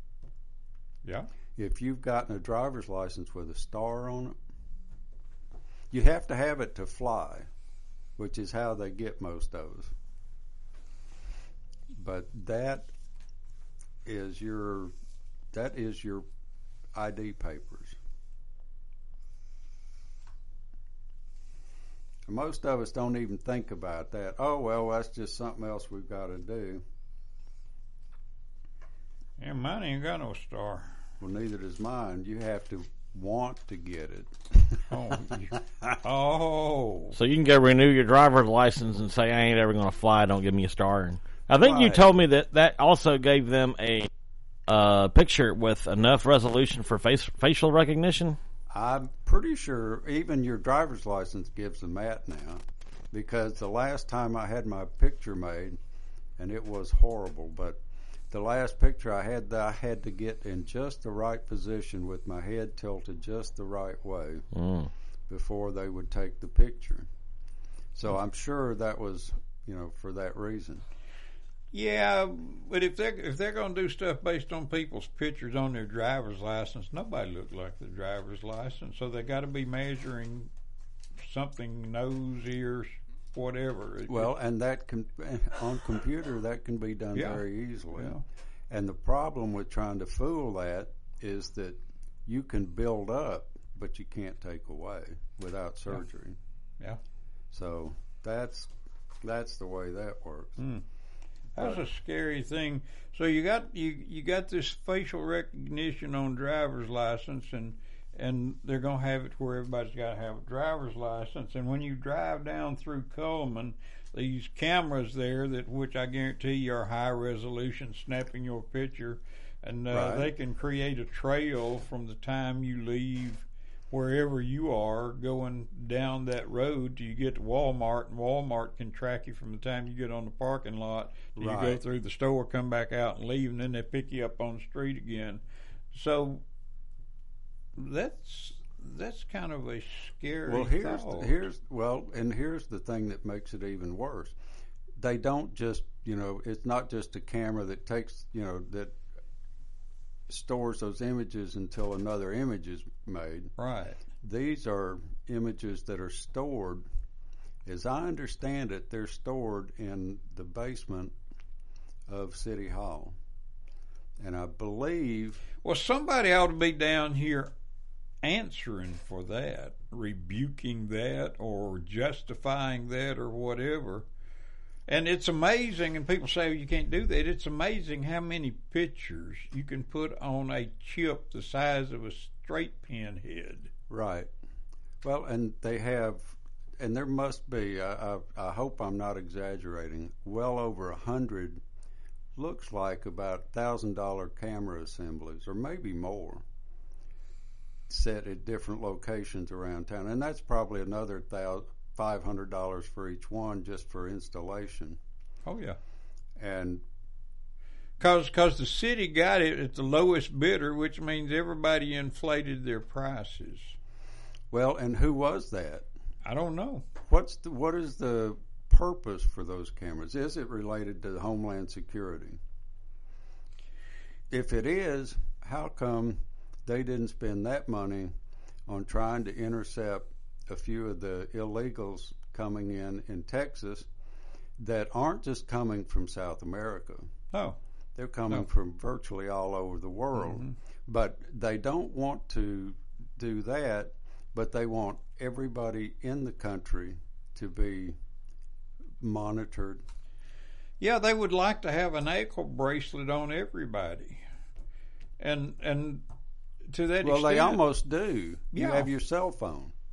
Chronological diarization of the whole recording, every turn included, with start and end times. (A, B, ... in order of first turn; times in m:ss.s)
0:01.0-0:01.3 A
0:01.6-0:04.4 B
0:05.9-0:07.5 B
0:08.2-0:09.9 B
0:11.9-0:12.9 B
0:14.0-0:14.9 B
0:15.5-0:16.3 B
0:17.0-0:18.0 B
0:22.3-0:26.8 B
0:29.4-0:30.9 A
0:31.2-0:34.9 B
0:34.9-0:37.2 A
0:37.1-0:44.1 C
0:41.5-0:42.0 B
0:44.7-0:48.4 C
0:48.7-0:55.8 B
0:56.4-0:57.8 B
0:58.3-1:04.5 B
1:04.5-1:04.9 C
1:05.3-1:07.1 B
1:08.0-1:10.8 B
1:11.7-1:20.5 A
1:21.2-1:24.3 A
1:24.1-1:28.2 B
1:27.2-1:27.4 A
1:28.0-1:28.2 A
1:28.7-1:36.4 B
1:37.5-1:38.7 B
1:39.2-1:40.6 B
1:40.6-1:40.8 A
1:41.6-2:15.4 A
1:59.9-2:00.3 B
2:11.4-2:11.8 B
2:15.9-2:16.4 A
2:17.8-2:21.4 A
2:20.5-2:24.4 B
2:25.0-2:29.0 B
2:30.3-2:33.5 B
2:33.6-2:34.0 A
2:34.2-2:36.9 B
2:37.7-2:41.2 B
2:42.1-2:43.2 B
2:44.2-2:45.4 B
2:45.6-2:47.5 A
2:48.2-2:54.1 A
2:54.9-3:03.7 A
3:03.9-3:04.3 B
3:05.0-3:11.6 B
3:12.4-3:16.4 B
3:17.9-3:25.0 B
3:25.4-3:25.8 A
3:26.4-3:26.8 B
3:28.0-3:33.8 A
3:34.5-3:35.9 B
3:36.2-3:36.9 A
3:37.1-3:42.4 B
3:44.3-3:48.1 B
3:48.7-3:53.9 B
3:54.6-3:57.1 B
3:57.3-3:57.6 A
3:58.0-4:08.0 B
4:00.2-4:00.5 A
4:09.0-4:09.8 B
4:10.8-4:14.2 A
4:15.2-4:16.0 A
4:16.7-4:17.6 A
4:17.0-4:19.7 B
4:18.5-4:18.9 A